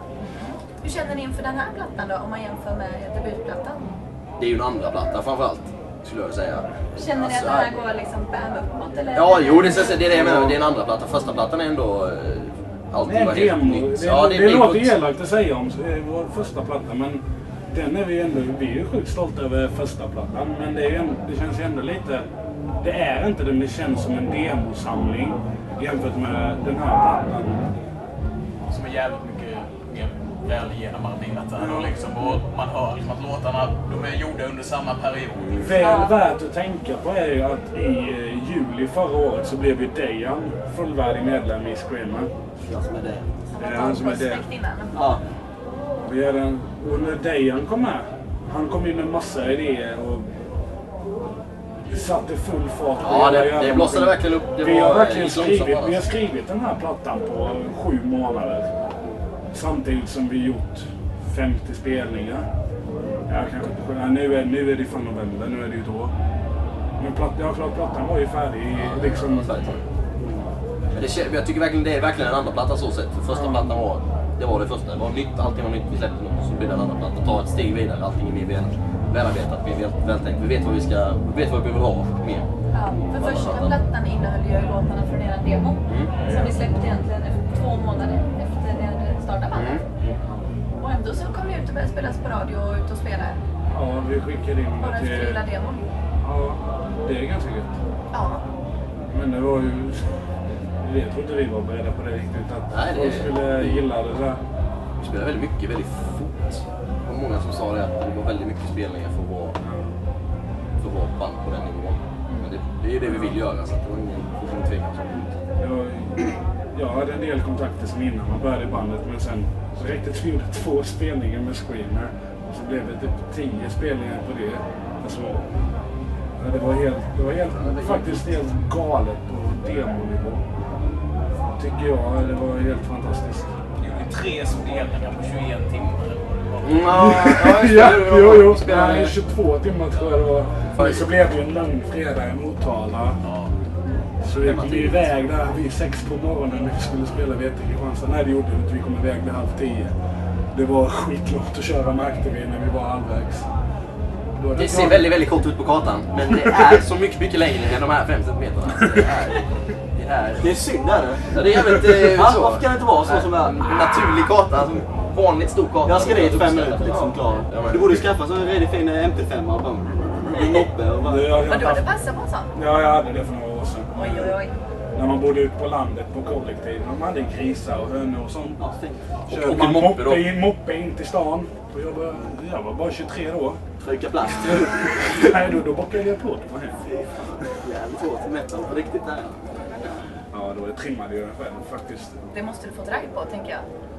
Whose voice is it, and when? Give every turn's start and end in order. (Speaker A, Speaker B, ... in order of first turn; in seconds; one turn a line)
Speaker A: 0.4-3.9
Speaker B: 4.4-7.8
Speaker A: 6.9-10.0
Speaker B: 9.1-15.0
Speaker C: 10.0-10.6
Speaker C: 13.0-22.3
Speaker C: 22.8-27.6
Speaker D: 28.7-35.7
Speaker C: 31.6-31.9
Speaker C: 35.5-42.3
Speaker A: 35.7-36.2
Speaker E: 42.6-43.3
Speaker A: 43.5-45.2
Speaker C: 43.6-44.4
Speaker E: 45.0-45.2
Speaker C: 46.0-50.3
Speaker C: 51.9-58.7
Speaker B: 53.0-56.0
Speaker C: 59.5-62.5
Speaker C: 63.3-66.1
Speaker C: 67.0-69.6
Speaker B: 68.7-69.8
Speaker B: 70.9-82.5
Speaker C: 73.3-73.8
Speaker A: 82.7-89.8
Speaker B: 83.1-83.8
Speaker B: 85.9-86.2
Speaker C: 86.2-86.6
Speaker B: 89.5-89.8
Speaker A: 90.8-93.4
Speaker C: 93.7-95.4
Speaker A: 94.8-95.8
Speaker C: 96.2-97.7
Speaker A: 98.1-98.4
Speaker C: 99.1-100.0
Speaker C: 100.8-104.4
Speaker B: 102.7-103.8
Speaker B: 105.0-109.5
Speaker C: 109.6-109.9
Speaker B: 110.8-115.4
Speaker C: 113.0-113.3
Speaker C: 115.6-125.4
Speaker C: 126.4-130.4
Speaker B: 127.4-128.3
Speaker C: 131.5-133.5
Speaker D: 133.8-137.2
Speaker B: 136.6-139.2
Speaker C: 136.9-143.2
Speaker D: 143.2-143.5
Speaker C: 144.2-149.9
Speaker B: 144.4-145.1
Speaker C: 150.5-153.5
Speaker C: 154.3-155.2
Speaker B: 154.5-160.6
Speaker C: 156.4-156.7
Speaker E: 160.4-163.9
Speaker B: 161.3-167.9
Speaker E: 165.8-171.6
Speaker C: 171.0-171.9
Speaker A: 171.4-172.5
Speaker C: 172.5-174.3
Speaker A: 173.9-174.5
Speaker C: 174.9-178.6
Speaker E: 178.6-179.1
Speaker B: 179.3-180.3
Speaker C: 179.3-183.6
Speaker E: 183.8-185.3
Speaker C: 184.4-186.8
Speaker E: 186.8-189.9
Speaker C: 190.3-192.3
Speaker A: 192.3-193.6